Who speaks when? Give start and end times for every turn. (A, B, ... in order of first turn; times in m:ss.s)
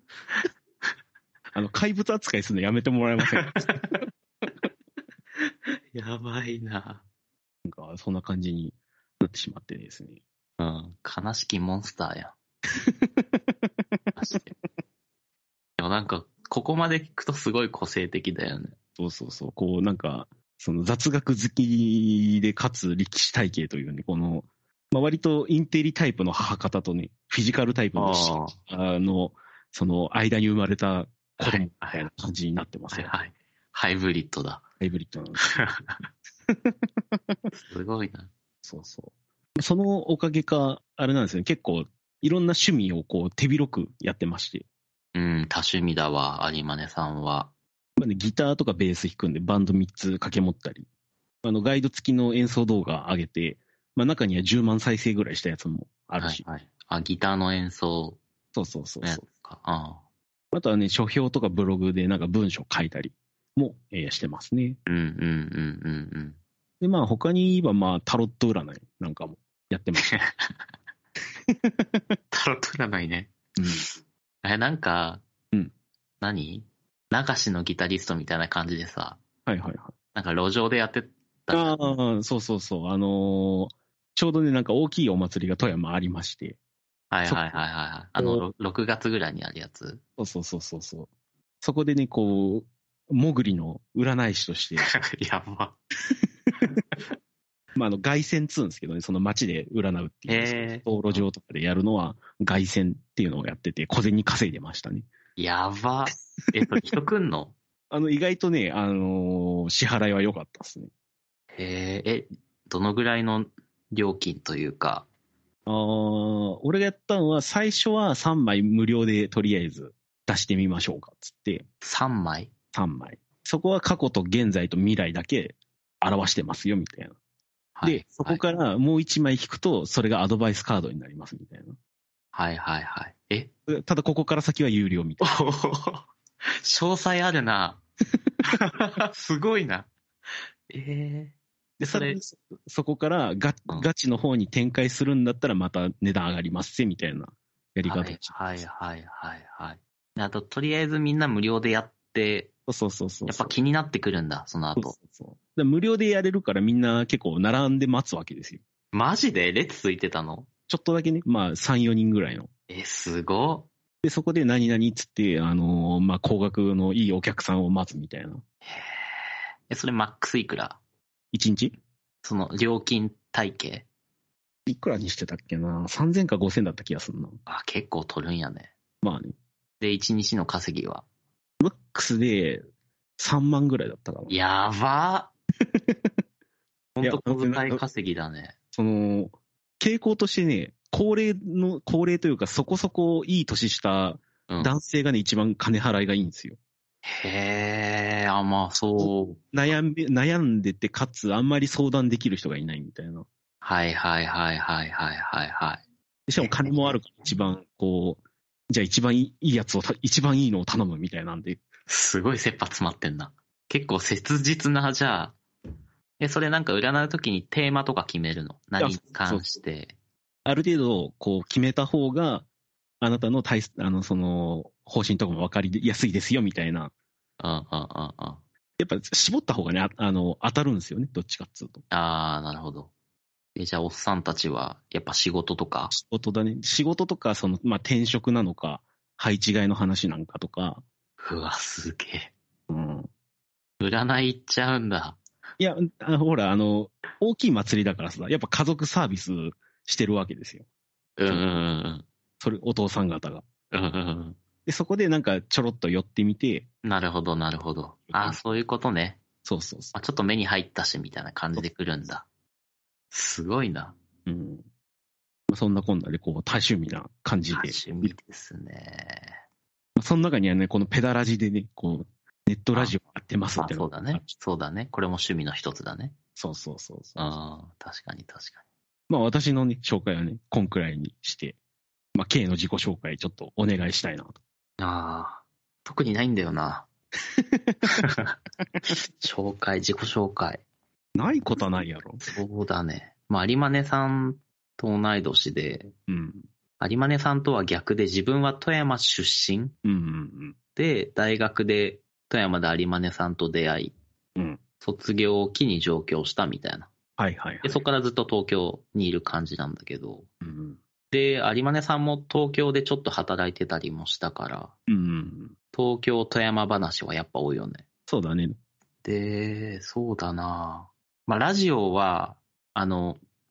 0:01.6-0:03.6 A
0:03.3-0:03.8 B
0:05.4-0:07.0 B
0:07.6-0:10.2 A
0:10.6-0:12.3 B
0:12.7-0:13.4 A
0:14.2-0:14.5 B
0:15.8-0:18.8 B
0:19.0-0:33.1 A
0:28.0-0:28.6 B
0:31.4-0:32.1 B
0:32.9-0:34.6 B
0:34.8-0:35.5 A
0:35.4-0:36.1 B
0:36.5-0:37.4 A
0:37.5-0:38.3 B
0:38.6-0:44.6 A
0:45.2-0:47.5 B
0:48.0-0:50.9 A
0:51.4-0:56.4 A
0:56.2-0:58.2 B
0:58.5-0:59.2 A
0:59.0-1:00.0 B
1:00.5-1:04.8 A
1:04.9-1:06.4 B
1:06.8-1:10.1 A
1:10.0-1:10.5 B
1:11.5-1:12.0 A
1:12.3-1:13.9 B
1:13.6-1:13.8 A
1:14.4-1:15.2 B
1:16.2-1:19.2 B
1:19.5-1:19.9 A
1:20.1-1:22.0 B
1:21.5-1:26.6 A
1:27.1-1:30.0 B
1:27.3-1:27.6 A
1:28.2-1:28.4 A
1:30.2-1:31.1 A
1:31.6-1:34.9 A
1:34.8-1:35.8 B
1:37.8-1:45.1 A
1:40.3-1:41.2 B
1:45.4-1:47.5 B
1:47.9-1:50.9 A
1:51.6-1:55.1 B
1:55.7-2:01.6 A
2:01.8-2:02.5 B
2:02.7-2:07.2 A
2:07.8-2:08.4 B
2:07.8-2:11.8 A
2:12.3-2:13.5 B
2:13.7-2:15.3 A
2:15.2-2:16.1 B
2:16.6-2:17.8 B
2:18.4-2:19.9 B
2:20.7-2:21.4 B
2:21.8-2:28.4 A
2:21.9-2:22.2 B
2:27.8-2:32.5 B
2:32.7-2:33.6 A
2:33.3-2:35.0 B
2:34.8-2:38.6 A
2:38.9-2:40.5 B
2:40.7-2:42.5 A
2:42.7-2:43.7 B
2:44.0-2:48.4 A
2:48.7-2:50.8 B
2:51.3-2:51.8 A
2:52.2-2:53.9 B
2:54.7-2:57.4 A
2:57.5-2:58.7 B
2:59.0-2:59.4 A
2:59.8-3:01.0 B
3:01.6-3:02.6 A
3:03.2-3:04.3 A
3:04.3-3:05.3 B
3:05.7-3:06.1 A
3:07.0-3:08.6 B
3:07.0-3:07.8 A
3:08.7-3:16.6 A
3:14.5-3:14.8 B
3:17.0-3:19.4 B
3:19.0-3:23.3 A
3:23.6-3:25.8 B
3:26.3-3:31.6 A
3:26.4-3:27.0 B
3:31.9-3:35.4 B
3:36.2-3:39.9 B
3:38.8-3:39.5 A
3:40.5-3:42.5 A
3:43.0-3:46.9 A
3:47.4-3:48.4 B
3:48.8-3:51.8 A
3:51.9-3:52.9 B
3:53.6-3:55.9 B
3:55.9-4:00.8 A
4:01.2-4:02.3 B
4:02.7-4:03.1 A
4:03.8-4:05.2 B
4:05.6-4:10.6 A
4:11.2-4:12.1 B
4:11.3-4:11.5 A
4:12.4-4:13.4 A
4:13.7-4:14.4 B
4:14.7-4:16.7 A
4:16.8-4:19.2 B
4:18.1-4:18.4 A
4:19.4-4:19.9 A
4:19.9-4:22.3 B
4:23.1-4:24.0 B
4:24.3-4:24.6 A
4:25.5-4:28.1 A
4:27.5-4:29.4 B
4:30.0-4:34.3 A
4:33.6-4:36.2 B
4:36.4-4:37.4 A
4:37.2-4:38.6 B
4:39.1-4:41.6 A
4:42.2-4:44.4 A
4:44.8-4:46.9 B
4:47.4-4:47.8 A
4:47.9-4:48.3 B
4:49.2-4:50.6 B
4:51.2-4:52.2 A
4:52.2-4:55.9 B
4:56.1-4:56.4 A
4:56.8-4:59.7 B
4:59.8-5:00.6 A
5:00.8-5:03.9 B
5:04.8-5:06.9 B
5:07.2-5:07.8 A
5:07.6-5:10.3 B
5:10.4-5:10.8 A
5:11.1-5:14.7 B
5:14.9-5:15.5 A
5:15.7-5:17.8 B
5:18.1-5:18.6 A
5:19.0-5:23.2 B